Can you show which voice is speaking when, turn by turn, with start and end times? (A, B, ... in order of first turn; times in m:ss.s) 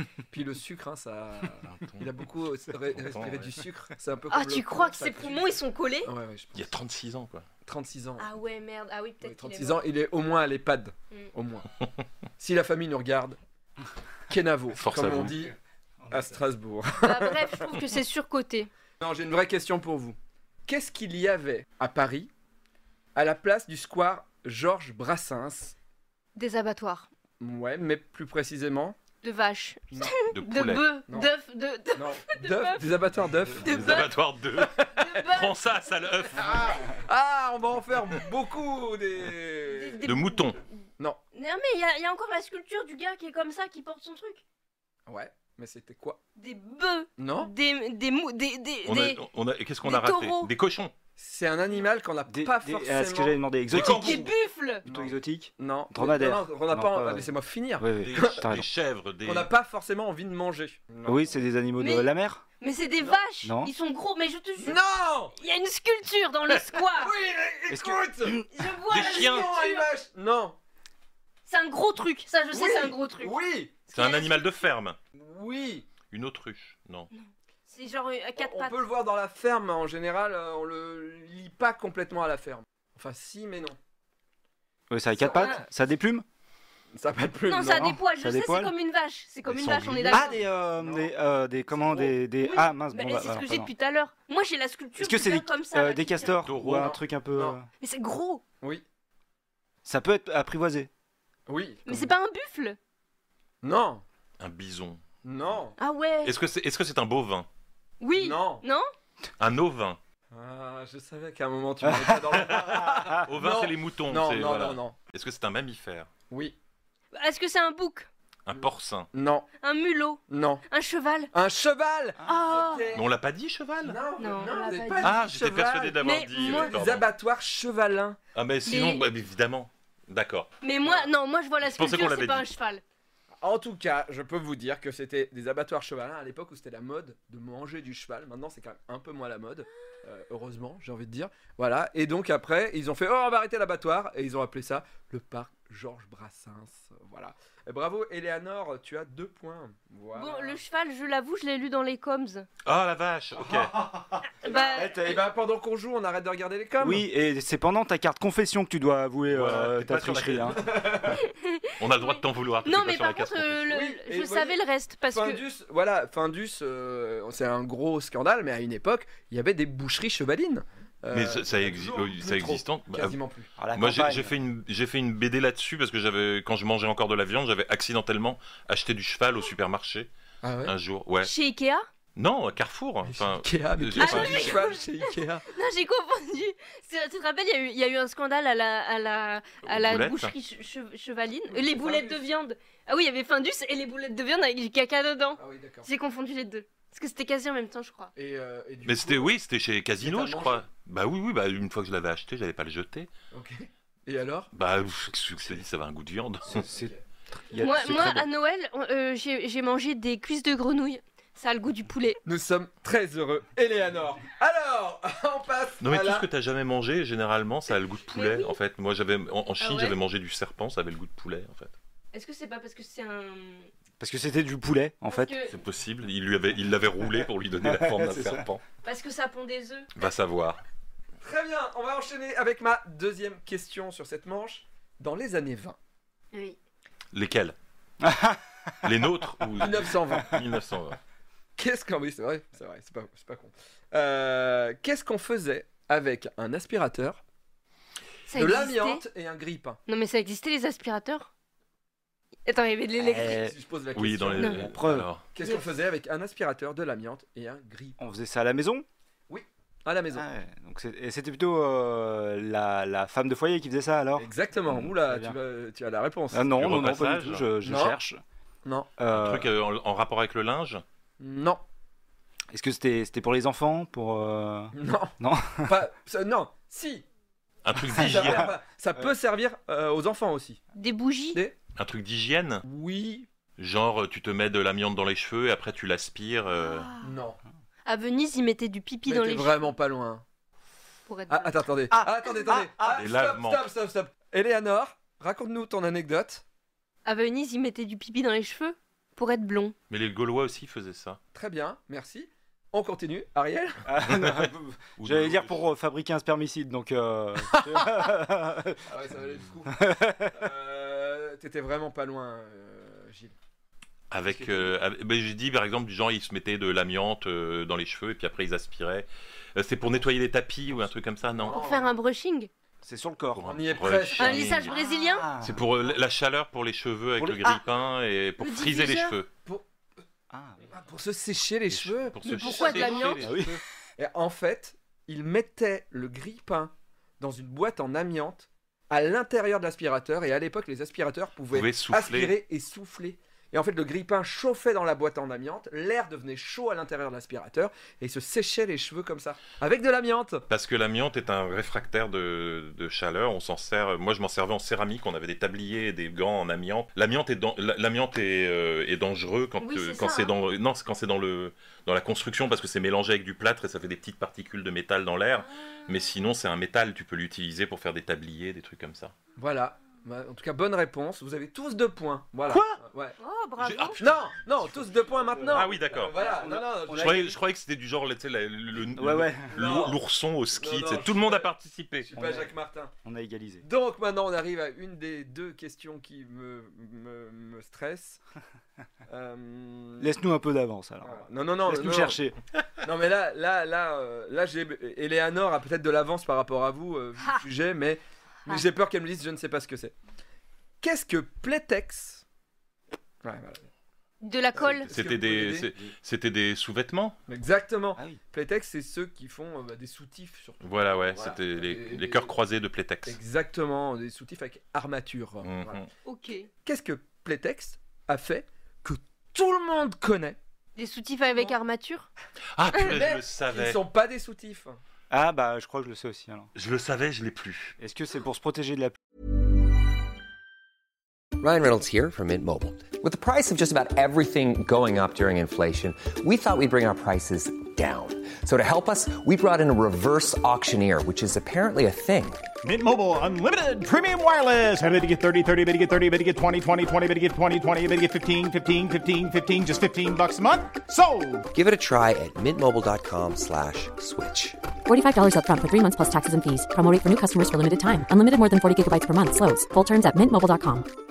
0:00.3-0:06.7 A
0:01.6-0:02.1 B
0:02.9-0:03.5 B
0:04.3-0:06.1 C
0:06.5-0:07.4 B
0:07.6-0:08.3 A
0:08.2-0:09.9 C
0:09.2-0:11.7 A
0:12.4-0:13.4 A
0:14.3-0:15.5 A
0:14.8-0:15.4 B
0:16.0-0:16.4 D
0:16.1-0:17.7 A
0:17.0-0:18.7 C
0:19.0-0:20.2 A
0:20.7-0:22.3 A
0:23.1-0:25.7 A
0:26.4-0:27.1 C
0:27.4-0:29.0 A
0:29.2-0:32.9 C
0:29.9-0:30.2 A
0:30.3-0:30.8 B
0:32.0-0:34.0 A
0:33.6-0:34.1 C
0:33.6-0:36.6 B
0:34.6-0:34.9 A
0:34.9-0:35.6 C
0:36.4-0:40.0 A
0:39.7-0:40.8 C
0:40.0-0:40.6 B
0:41.3-0:44.4 C
0:45.1-0:46.2 A
0:46.4-0:49.2 C
0:47.2-0:47.5 A
0:48.8-0:50.9 B
0:49.8-0:50.5 C
0:51.2-0:53.4 A
0:52.3-0:54.3 D
0:53.7-0:54.2 B
0:53.7-0:54.8 C
0:54.8-0:58.6 D
0:54.8-0:58.4 A
0:58.0-0:59.5 B
0:59.2-1:01.4 A
1:01.0-1:02.4 D
1:01.8-1:02.1 C
1:02.6-1:04.8 C
1:03.4-1:03.7 D
1:04.6-1:05.3 A
1:05.4-1:07.1 C
1:07.0-1:08.4 A
1:07.7-1:08.4 D
1:08.5-1:09.9 C
1:08.9-1:10.6 A
1:08.9-1:09.5 B
1:11.4-1:13.3 C
1:12.5-1:13.8 A
1:13.9-1:15.0 B
1:13.9-1:14.5 C
1:15.1-1:15.8 A
1:16.1-1:17.1 B
1:17.1-1:18.8 C
1:18.4-1:23.8 A
1:24.9-1:26.2 D
1:25.2-1:25.6 A
1:25.2-1:25.6 C
1:27.0-1:28.0 A
1:27.5-1:30.4 C
1:27.8-1:28.7 D
1:29.5-1:30.2 B
1:30.1-1:33.7 D
1:30.1-1:31.1 A
1:31.7-1:32.2 A
1:32.4-1:36.4 C
1:35.0-1:37.7 D
1:36.4-1:36.9 B
1:36.6-1:37.6 A
1:37.8-1:38.4 C
1:39.8-1:40.9 D
1:41.5-1:42.1 A
1:41.8-1:42.8 C
1:43.6-1:44.0 A
1:44.4-1:45.0 B
1:45.2-1:45.8 A
1:45.8-1:46.3 C
1:46.2-1:47.5 B
1:48.0-1:48.9 C
1:48.1-1:48.6 A
1:49.4-1:50.0 B
1:50.3-1:55.0 A
1:51.8-1:53.2 D
1:52.3-1:56.1 B
1:56.3-1:56.6 A
1:57.1-1:58.1 C
1:58.4-1:59.1 B
1:58.5-1:59.5 A
1:59.6-2:01.3 C
2:00.3-2:00.6 A
2:01.3-2:03.0 A
2:02.2-2:02.9 C
2:02.9-2:04.0 B
2:03.8-2:08.2 A
2:04.2-2:05.2 C
2:05.0-2:07.1 B
2:06.0-2:06.7 C
2:08.3-2:10.5 B
2:08.6-2:09.0 C
2:10.6-2:12.8 C
2:11.6-2:12.5 B
2:13.4-2:30.6 A
2:30.1-2:32.4 C
2:32.6-2:33.9 B
2:33.4-2:35.3 D
2:34.4-2:35.1 C
2:34.5-2:37.1 A
2:36.8-2:41.0 D
2:39.3-2:40.6 B
2:40.6-2:41.2 A
2:41.1-2:45.4 C
2:41.8-2:43.7 B
2:43.7-2:53.5 A
2:51.1-2:53.2 B
2:53.6-2:54.3 D
2:53.7-3:00.1 B
3:00.4-3:00.7 A
3:00.6-3:01.3 B
3:01.2-3:01.8 C
3:02.2-3:04.6 B
3:03.0-3:05.4 A
3:04.0-3:18.1 C
3:09.6-3:10.3 B
3:11.5-3:12.2 A
3:15.4-3:15.9 A
3:18.2-3:19.3 A
3:18.8-3:23.1 B
3:20.0-3:20.6 A
3:23.3-3:24.5 A
3:24.5-3:26.6 B
3:26.5-3:28.3 D
3:26.5-3:27.0 A
3:27.6-3:32.2 C
3:32.2-3:36.2 A
3:35.8-3:41.7 B
3:38.1-3:38.6 C
3:39.6-3:40.0 C
3:42.1-3:43.7 C
3:44.0-3:45.4 D
3:45.0-3:45.5 C
3:45.5-3:48.6 B
3:47.6-3:48.5 D
3:48.8-3:49.9 C
3:49.9-3:50.6 B
3:51.2-3:55.8 A
3:56.3-3:56.6 C
3:57.1-3:57.5 B
3:58.0-3:58.4 D
3:58.8-4:01.0 B
3:59.6-4:00.3 A
4:01.6-4:07.2 A
4:08.3-4:09.0 C
4:08.3-4:09.8 A
4:09.9-4:11.3 C
4:12.4-4:13.4 C
4:13.0-4:13.5 D
4:13.3-4:14.8 A
4:13.9-4:15.2 B
4:14.4-4:14.6 C
4:14.6-4:15.1 D
4:15.3-4:18.0 A
4:15.4-4:15.7 C
4:18.0-4:18.8 D
4:19.3-4:20.2 A
4:20.1-4:25.4 D
4:24.2-4:26.5 A
4:26.3-4:28.2 D
4:26.5-4:27.4 B
4:27.6-4:28.0 A
4:28.6-4:28.9 A
4:29.0-4:29.5 D
4:29.1-4:30.8 B
4:31.2-4:31.6 A
4:32.5-4:35.8 D
4:34.7-4:35.1 A
4:35.6-4:37.0 A
4:37.6-4:38.5 B
4:37.9-4:40.6 A
4:38.0-4:38.3 D
4:40.7-4:41.4 C
4:41.8-4:42.6 B
4:42.6-4:43.3 A
4:43.6-4:46.9 B
4:46.6-4:47.1 C
4:47.0-4:47.4 A
4:47.8-4:49.7 C
4:49.0-4:50.2 A
4:51.1-4:51.7 C
4:51.3-4:56.4 A
4:51.9-4:53.0 D
4:52.8-4:53.7 B
4:57.0-4:59.7 C
4:59.9-5:01.2 B
5:01.3-5:03.8 A
5:03.8-5:08.8 D
5:04.1-5:05.6 B
5:07.5-5:08.0 A
5:08.9-5:13.3 A
5:09.7-5:10.4 D
5:14.1-5:21.6 B
5:14.3-5:14.6 A
5:21.3-5:21.9 A
5:21.5-5:22.5 C
5:22.8-5:23.4 D
5:23.3-5:24.7 B
5:23.5-5:24.6 A
5:24.2-5:25.3 C
5:24.7-5:25.6 D
5:25.4-5:29.3 B
5:27.2-5:27.6 D
5:28.4-5:29.2 C
5:30.3-5:30.6 D
5:30.7-5:33.4 A
5:31.7-5:33.4 B
5:32.2-5:33.3 C
5:33.2-5:33.6 D
5:34.0-5:50.4 A
5:41.5-5:42.4 B
5:50.5-6:09.1 B
5:59.6-6:00.3 C
6:05.4-6:05.8 C
6:09.4-6:13.2 A
6:12.5-6:12.8 B
6:13.2-6:14.0 C
6:13.6-6:16.2 B
6:14.0-6:17.4 A
6:15.2-6:17.3 D
6:16.9-6:22.1 B
6:19.0-6:19.8 D
6:19.5-6:20.0 A
6:20.6-6:21.5 A
6:22.0-6:22.9 A
6:22.2-6:23.6 D
6:23.6-6:28.2 A
6:29.1-6:30.1 A
6:30.0-6:32.4 D
6:31.0-6:32.2 A
6:32.8-6:39.9 A
6:40.8-6:42.2 A
6:43.2-6:43.6 A
6:44.2-6:44.9 C
6:44.6-6:45.7 A
6:44.9-6:47.2 B
6:47.3-6:52.3 A
6:50.6-6:53.2 B
6:53.0-6:55.8 A
6:55.4-6:55.9 B
6:56.0-6:56.5 C
6:56.6-7:00.4 A
7:00.8-7:02.1 C
7:02.6-7:03.8 B
7:02.7-7:04.8 A
7:05.1-7:06.5 D
7:06.6-7:07.8 B
7:07.8-7:09.0 D
7:11.4-7:22.4 E
7:22.6-7:31.5 F
7:31.5-7:34.6 E
7:34.8-7:40.9 G